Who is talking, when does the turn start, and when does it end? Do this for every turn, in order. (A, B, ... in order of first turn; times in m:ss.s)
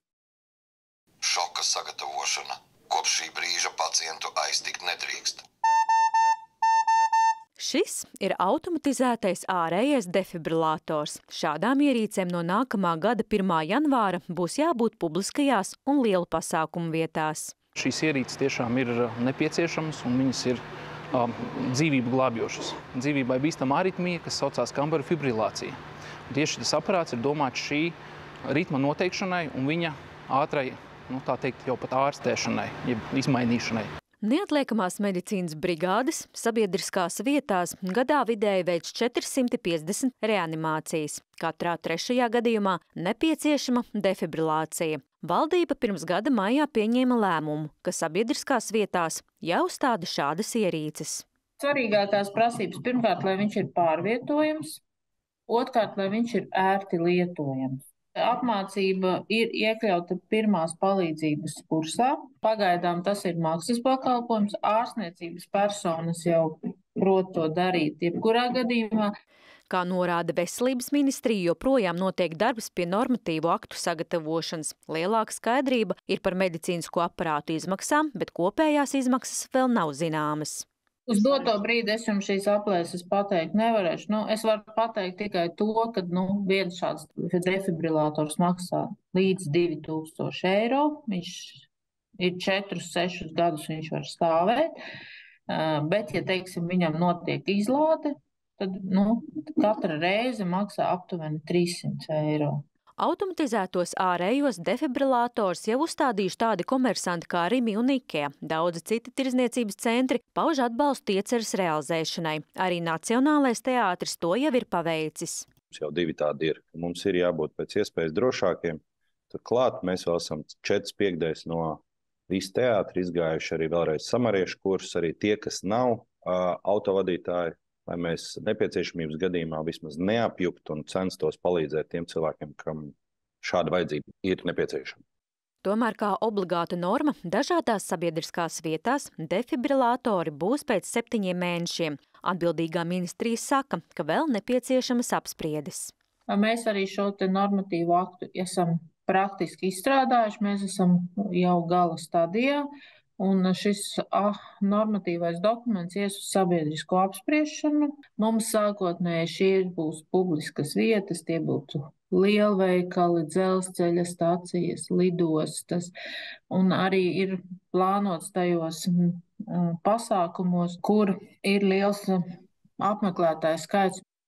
0:01.2-0:05.4 A
0:07.6-0:17.5 B
0:17.8-0:20.6 C
0:21.1-0:25.7 C
0:26.3-0:27.9 C
0:28.5-0:33.8 C
0:34.2-0:51.2 B
0:51.6-0:54.8 D
0:55.5-1:09.1 D
1:09.7-1:20.6 B
1:21.1-1:31.7 D
1:32.2-1:34.7 D
1:35.5-1:42.6 D
1:43.0-1:55.4 B
1:55.7-2:15.0 E
2:15.6-2:25.9 B
2:26.3-2:32.6 D
2:33.2-2:45.9 D
2:46.5-2:52.2 D
2:52.8-2:54.0 D